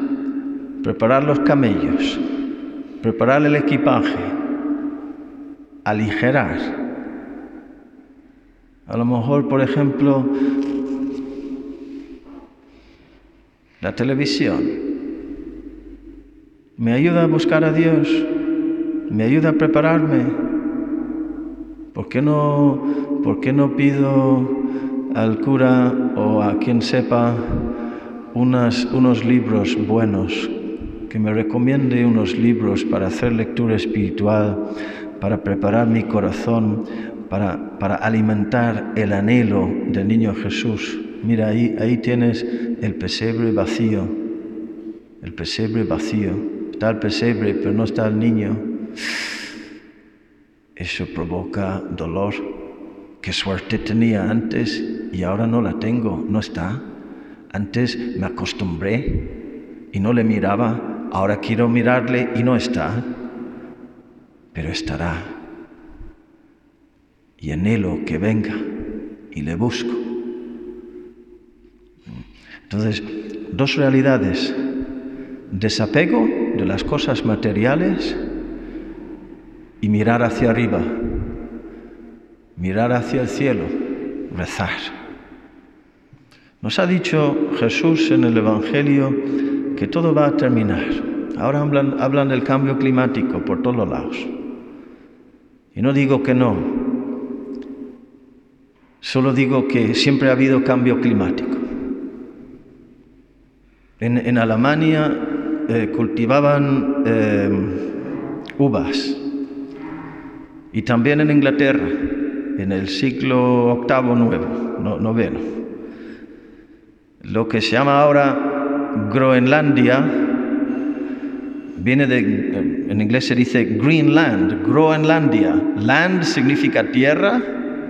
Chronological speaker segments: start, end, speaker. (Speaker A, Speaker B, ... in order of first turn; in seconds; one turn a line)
Speaker A: 0.8-2.2
Speaker A: 3.0-4.3
Speaker A: 5.8-6.8
Speaker A: 8.9-10.3
Speaker A: 13.8-14.8
Speaker A: 16.8-18.3
Speaker A: 19.1-20.4
Speaker A: 21.9-24.6
Speaker A: 25.1-27.7
Speaker A: 28.3-30.5
Speaker A: 31.1-34.6
Speaker A: 35.2-44.1
Speaker A: 45.2-48.6
Speaker A: 50.8-52.5
Speaker A: 53.2-56.8
Speaker A: 57.5-59.3
Speaker A: 59.9-63.0
Speaker A: 64.5-65.3
Speaker A: 67.4-68.6
Speaker A: 69.3-70.0
Speaker A: 72.7-74.6
Speaker A: 75.5-78.2
Speaker A: 79.8-81.0
Speaker A: 82.6-83.7
Speaker A: 84.3-84.9
Speaker A: 86.6-89.2
Speaker A: 89.7-94.3
Speaker A: 95.7-96.9
Speaker A: 99.0-101.6
Speaker A: 104.0-107.8
Speaker A: 108.6-109.2
Speaker A: 110.7-112.0
Speaker A: 112.5-115.4
Speaker A: 117.2-120.1
Speaker A: 121.8-127.4